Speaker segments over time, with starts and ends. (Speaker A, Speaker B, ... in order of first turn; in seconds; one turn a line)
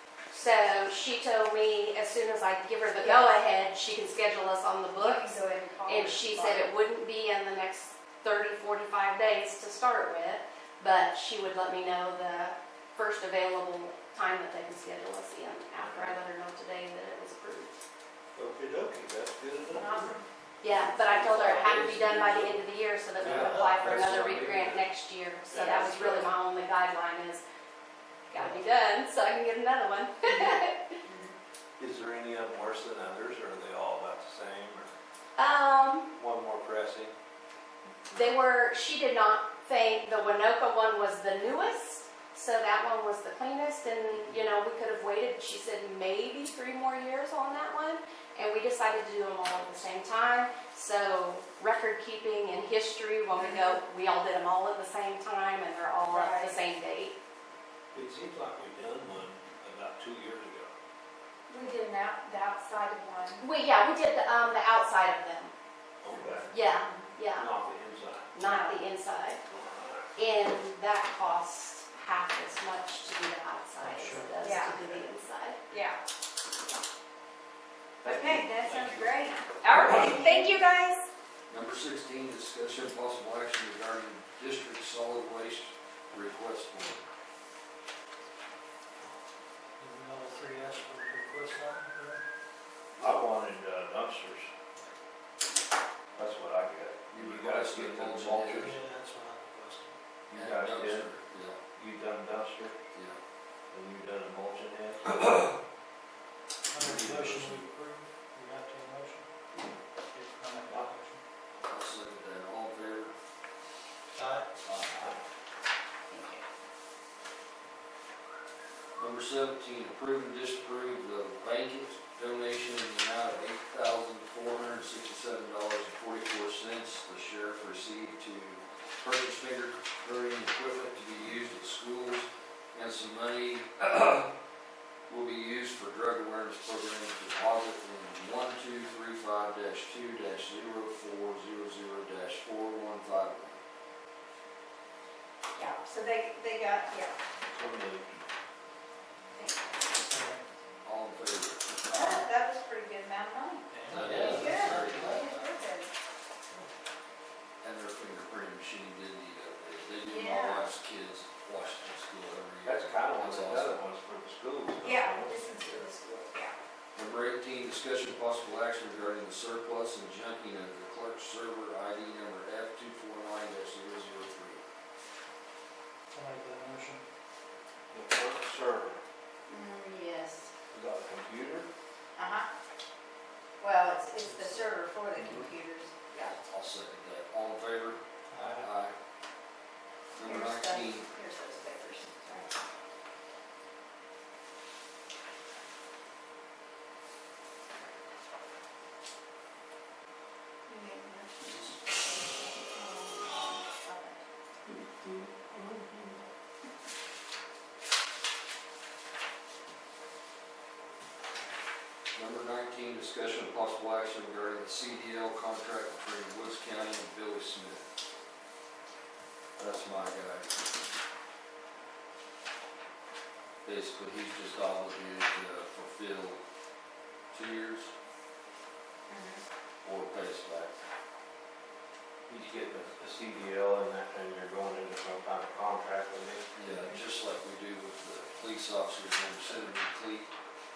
Speaker A: 0.3-17.8
Speaker B: 3.0-3.4
Speaker B: 5.0-6.7
Speaker C: 15.8-16.2
Speaker C: 18.3-20.2
Speaker B: 19.7-20.2
Speaker A: 20.6-27.4
Speaker C: 20.8-22.6
Speaker D: 23.2-23.8
Speaker E: 23.2-24.8
Speaker C: 25.5-26.2
Speaker A: 28.3-31.0
Speaker B: 31.0-31.3
Speaker C: 31.8-34.9
Speaker A: 35.4-36.1
Speaker C: 36.1-37.1
Speaker A: 38.1-57.1
Speaker B: 53.4-53.8
Speaker B: 56.1-56.6
Speaker C: 57.9-60.7
Speaker B: 61.5-63.4
Speaker A: 63.4-65.5
Speaker C: 66.0-66.5
Speaker B: 66.1-67.1
Speaker A: 66.5-67.5
Speaker C: 67.3-68.3
Speaker A: 68.3-69.4
Speaker B: 68.4-68.8
Speaker C: 69.5-70.1
Speaker A: 70.2-75.6
Speaker D: 73.8-74.4
Speaker B: 74.4-74.8
Speaker B: 75.7-76.0
Speaker B: 78.0-80.6
Speaker C: 78.0-78.7
Speaker A: 79.6-81.0
Speaker E: 79.8-80.2
Speaker E: 81.5-87.0
Speaker D: 89.8-92.2
Speaker C: 93.0-94.5
Speaker C: 96.1-98.7
Speaker E: 97.1-98.7
Speaker D: 98.5-100.0
Speaker C: 100.3-101.1
Speaker E: 100.3-101.6
Speaker C: 101.7-102.8
Speaker E: 102.9-103.2
Speaker C: 103.7-105.4
Speaker D: 106.7-109.3
Speaker C: 106.7-107.6
Speaker D: 110.1-111.2
Speaker E: 111.6-113.1
Speaker D: 114.2-114.5
Speaker E: 114.6-115.1
Speaker C: 114.8-115.2
Speaker B: 116.1-116.4
Speaker E: 119.0-134.3
Speaker E: 135.1-143.6
Speaker B: 145.5-147.2
Speaker C: 147.5-148.1
Speaker B: 149.3-150.0
Speaker D: 150.1-150.4
Speaker E: 150.8-152.3
Speaker B: 151.9-153.7
Speaker D: 153.7-155.1
Speaker E: 153.9-155.5
Speaker B: 154.2-155.9
Speaker E: 157.6-163.8
Speaker B: 160.0-160.7
Speaker C: 162.6-165.5
Speaker B: 164.8-166.6
Speaker E: 166.9-174.6
Speaker D: 176.1-177.0
Speaker C: 177.9-179.0
Speaker B: 179.5-180.5
Speaker C: 180.7-181.7
Speaker B: 182.2-182.5
Speaker B: 183.6-186.3
Speaker C: 185.2-185.4
Speaker E: 186.4-188.9
Speaker D: 188.3-188.6
Speaker C: 188.3-188.7
Speaker E: 190.2-191.1
Speaker B: 190.2-192.5
Speaker B: 200.7-204.2
Speaker A: 205.4-205.8
Speaker E: 212.1-217.8
Speaker E: 219.6-220.4
Speaker E: 223.6-226.4
Speaker E: 227.3-227.9
Speaker B: 229.1-229.4
Speaker E: 229.8-230.7
Speaker C: 232.3-236.5
Speaker E: 236.5-240.3
Speaker B: 236.7-237.0